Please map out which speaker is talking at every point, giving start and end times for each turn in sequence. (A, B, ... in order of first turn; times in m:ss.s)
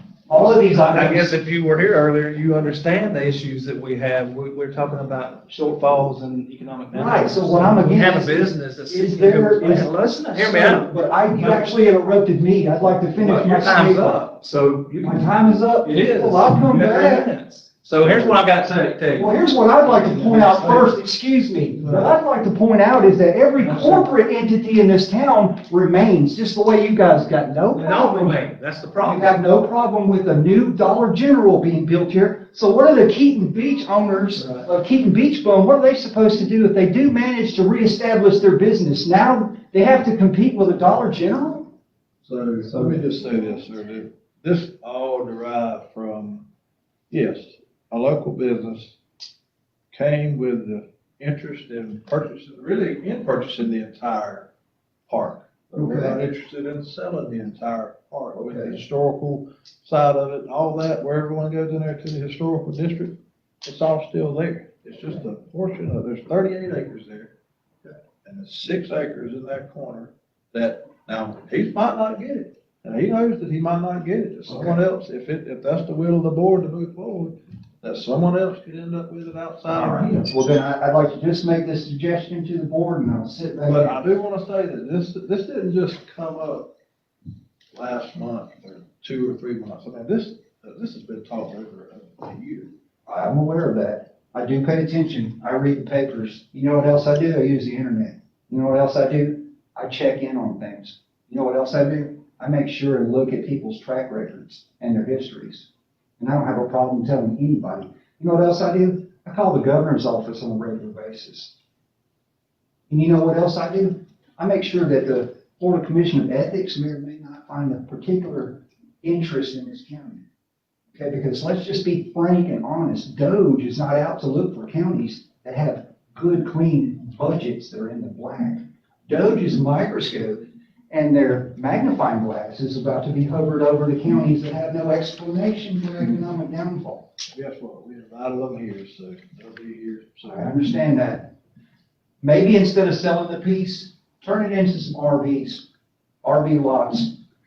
0:00.3-0:01.4 A
0:00.3-0:11.7 B
0:06.9-0:14.2 A
0:13.2-0:20.9 B
0:15.0-0:17.3 A
0:18.0-0:18.4 A
0:19.1-0:28.4 A
0:23.6-0:24.0 B
0:27.7-0:29.4 B
0:29.0-0:41.7 A
0:34.4-0:34.6 B
0:42.2-0:46.4 C
0:42.7-0:43.0 B
0:47.1-0:49.0 C
0:49.9-0:54.5 C
0:55.1-1:07.3 C
0:55.8-0:56.2 A
0:58.4-0:58.8 A
1:08.2-1:20.3 C
1:14.5-1:14.8 A
1:19.7-1:24.0 A
1:23.6-1:26.7 C
1:27.7-1:32.7 C
1:33.1-1:45.7 A
1:46.2-1:51.5 A
1:52.9-2:00.2 A
2:00.9-2:17.1 A
2:17.3-2:20.6 C
2:20.2-2:21.3 A
2:22.2-2:25.6 A
2:26.2-2:27.1 A